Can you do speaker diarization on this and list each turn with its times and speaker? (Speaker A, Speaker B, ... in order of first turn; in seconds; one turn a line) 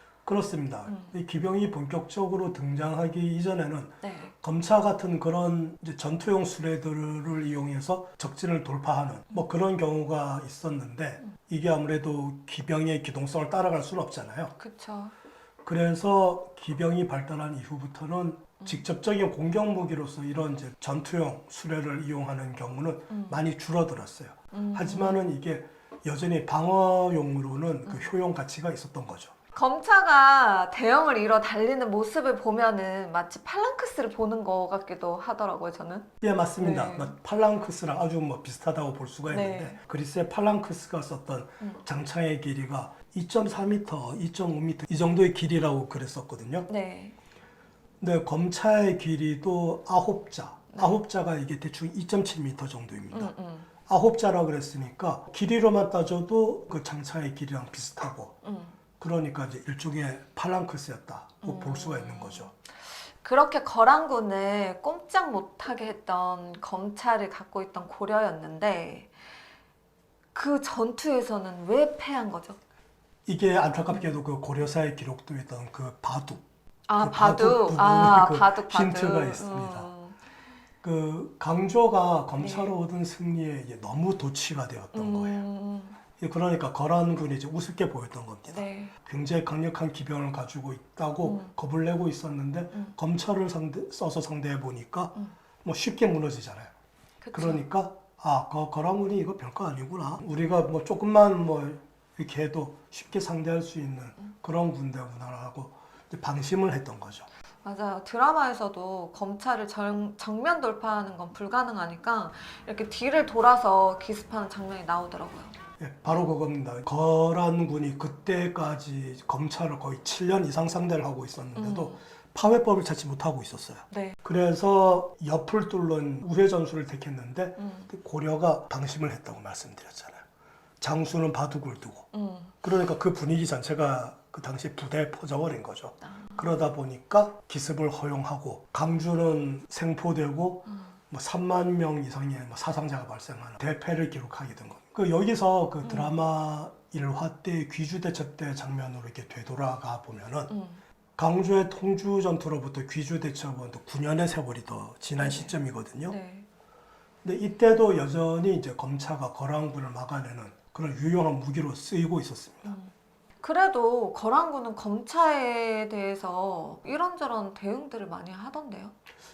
Speaker A: 0.3-14.5
Speaker B: 0.9-1.1
Speaker B: 4.0-4.3
Speaker B: 14.6-15.1
Speaker A: 15.6-29.3
Speaker B: 23.1-23.4
Speaker B: 24.5-25.2
Speaker B: 29.5-37.1
Speaker A: 36.2-46.7
Speaker B: 39.3-39.8
Speaker B: 46.7-47.2
Speaker A: 48.0-53.3
Speaker B: 50.7-51.0
Speaker B: 53.1-53.7
Speaker A: 53.9-58.4
Speaker B: 58.4-58.8
Speaker A: 59.0-62.5
Speaker B: 61.4-69.1
Speaker B: 70.3-72.6
Speaker A: 73.3-76.5
Speaker B: 76.9-80.2
Speaker A: 77.0-79.9
Speaker A: 80.8-85.4
Speaker B: 82.4-82.8
Speaker B: 84.9-86.0
Speaker A: 86.2-96.7
Speaker B: 88.5-88.9
Speaker B: 91.2-91.5
Speaker B: 97.2-97.6
Speaker A: 97.3-107.3
Speaker B: 107.6-115.6
Speaker A: 115.8-130.2
Speaker B: 121.6-122.0
Speaker B: 123.9-124.2
Speaker B: 127.6-127.9
Speaker A: 130.8-132.1
Speaker B: 132.1-132.5
Speaker A: 132.6-150.5
Speaker B: 136.0-136.5
Speaker B: 140.7-141.0
Speaker B: 145.8-146.1
Speaker B: 150.5-150.8
Speaker A: 151.2-156.2
Speaker B: 155.2-156.5
Speaker A: 157.2-162.8
Speaker B: 162.7-168.9